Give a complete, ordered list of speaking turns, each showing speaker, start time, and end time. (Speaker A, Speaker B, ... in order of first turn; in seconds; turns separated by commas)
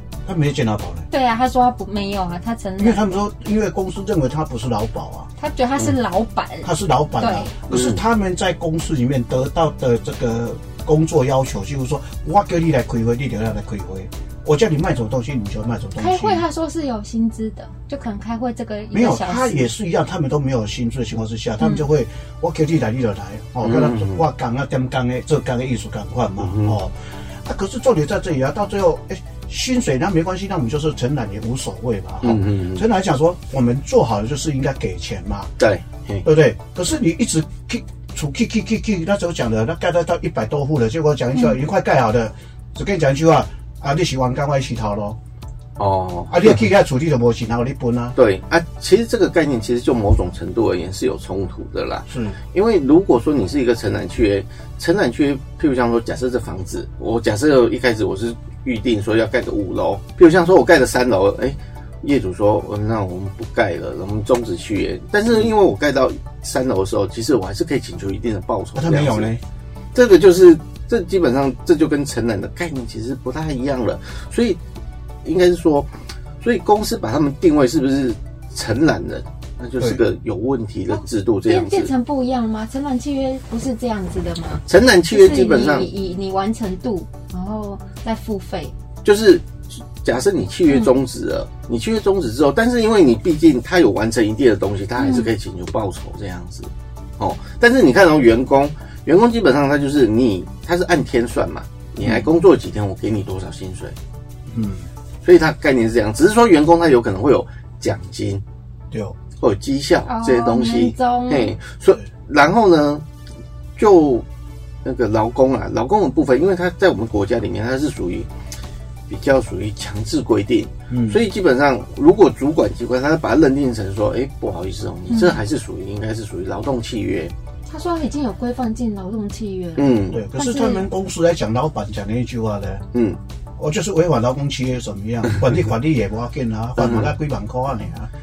Speaker A: 0.2-1.1, Speaker B: 1.1-3.0, Speaker A: 2.8-5.3, Speaker B: 5.4-7.5, Speaker A: 6.6-16.4, Speaker C: 7.7-8.0, Speaker B: 15.9-19.7, Speaker A: 18.9-35.5, Speaker B: 21.6-21.8, Speaker C: 23.6-24.2, Speaker C: 26.4-26.8, Speaker C: 32.2-32.8, Speaker C: 35.6-36.2, Speaker A: 36.2-45.2, Speaker C: 45.8-46.6, Speaker A: 46.3-48.1, Speaker C: 48.1-69.3, Speaker A: 52.1-52.4, Speaker A: 68.7-69.4, Speaker C: 69.9-74.6, Speaker C: 75.2-75.9, Speaker C: 76.4-81.9, Speaker B: 81.5-88.7, Speaker C: 84.6-85.9, Speaker C: 89.0-104.0, Speaker B: 95.0-95.3, Speaker A: 104.5-104.9, Speaker C: 105.2-108.4, Speaker A: 108.9-109.2, Speaker C: 109.4-113.0, Speaker B: 110.0-111.5, Speaker C: 113.8-114.2, Speaker C: 114.8-118.3, Speaker C: 119.1-127.3, Speaker A: 120.9-121.2, Speaker B: 125.1-125.4, Speaker B: 127.7-130.9, Speaker C: 129.8-130.2, Speaker A: 130.1-132.8, Speaker C: 132.9-133.2, Speaker A: 133.6-138.1, Speaker C: 136.8-137.1